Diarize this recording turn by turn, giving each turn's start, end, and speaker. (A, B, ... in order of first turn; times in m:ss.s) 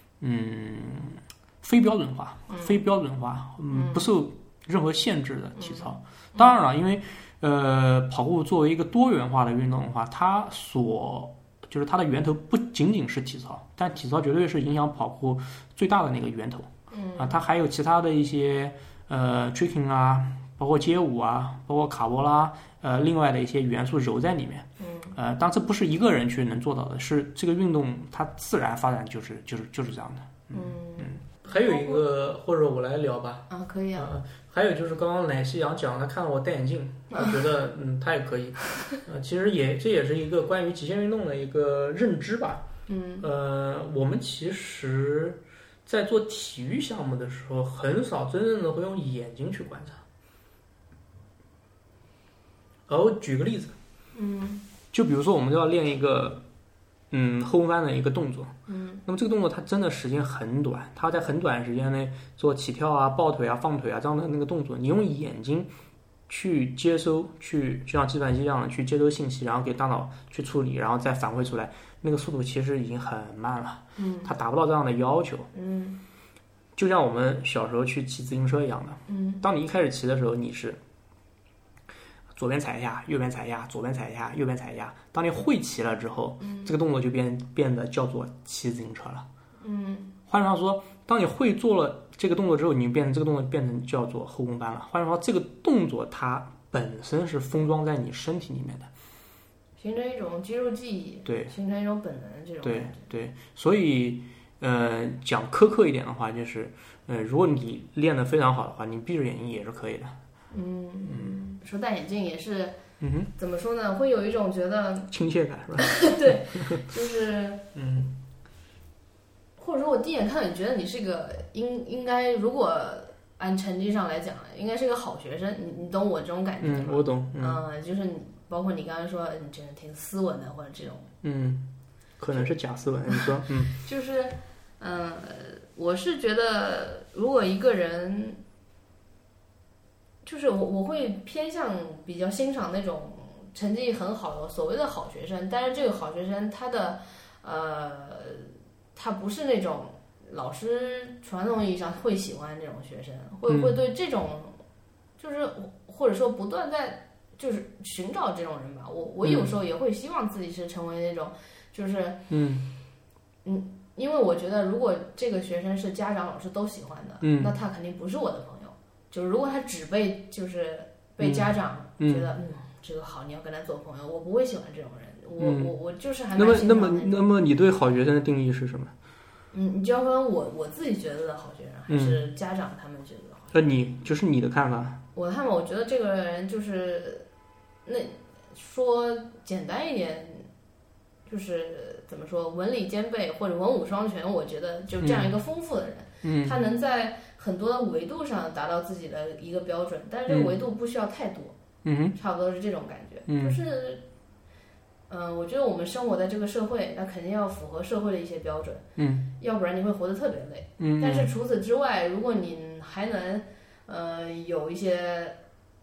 0:00.2-0:42.7 A
0:02.5-0:02.8 B
0:03.7-0:04.1 B
0:05.6-0:06.6 B
0:16.9-0:17.4 B
0:24.8-0:25.2 B
0:30.5-0:32.0 B
0:33.5-0:34.1 B
0:37.1-0:37.4 B
0:42.9-0:43.3 B
0:43.2-0:50.0 A
0:52.9-0:53.8 A
0:54.2-0:54.6 B
0:54.9-0:56.4 A
0:57.1-0:58.5 A
0:58.7-0:59.0 B
0:59.1-1:05.7 A
1:06.3-1:15.5 A
1:14.0-1:14.3 B
1:15.5-1:16.0 B
1:16.8-1:20.8 A
1:19.1-1:19.4 B
1:22.4-1:29.3 A
1:26.4-1:26.7 B
1:29.6-1:30.2 B
1:30.3-1:38.9 A
1:39.8-1:43.1 B
1:41.3-1:41.5 A
1:42.6-1:50.2 A
1:50.5-1:52.8 B
1:51.0-1:51.4 A
1:53.0-1:53.3 A
1:53.4-1:55.1 B
1:55.1-1:56.8 A
1:55.8-1:57.6 B
1:57.8-1:58.2 A
1:59.6-2:11.1 B
2:06.6-2:07.6 A
2:11.2-2:11.7 A
2:12.2-2:13.7 A
2:13.1-2:18.4 B
2:20.2-2:34.6 B
2:33.5-2:33.7 A
2:35.2-2:42.2 B
2:39.2-2:39.5 A
2:42.3-2:42.7 A
2:43.4-2:57.3 B
2:47.2-2:47.5 A
2:51.2-2:51.5 A
2:52.0-2:52.3 A
2:55.4-2:55.7 A
2:56.4-2:58.9 A
2:59.5-3:03.6 B
3:01.9-3:02.2 A
3:03.5-3:05.0 A
3:05.1-3:07.3 B
3:07.9-3:10.5 B
3:11.3-3:21.6 B
3:15.0-3:15.3 A
3:16.2-3:16.6 A
3:20.3-3:20.5 A
3:21.8-3:22.2 A
3:22.2-3:24.0 B
3:23.3-3:23.6 A
3:25.1-3:28.8 B
3:29.0-3:29.3 A
3:29.4-3:35.4 B
3:30.8-3:31.3 A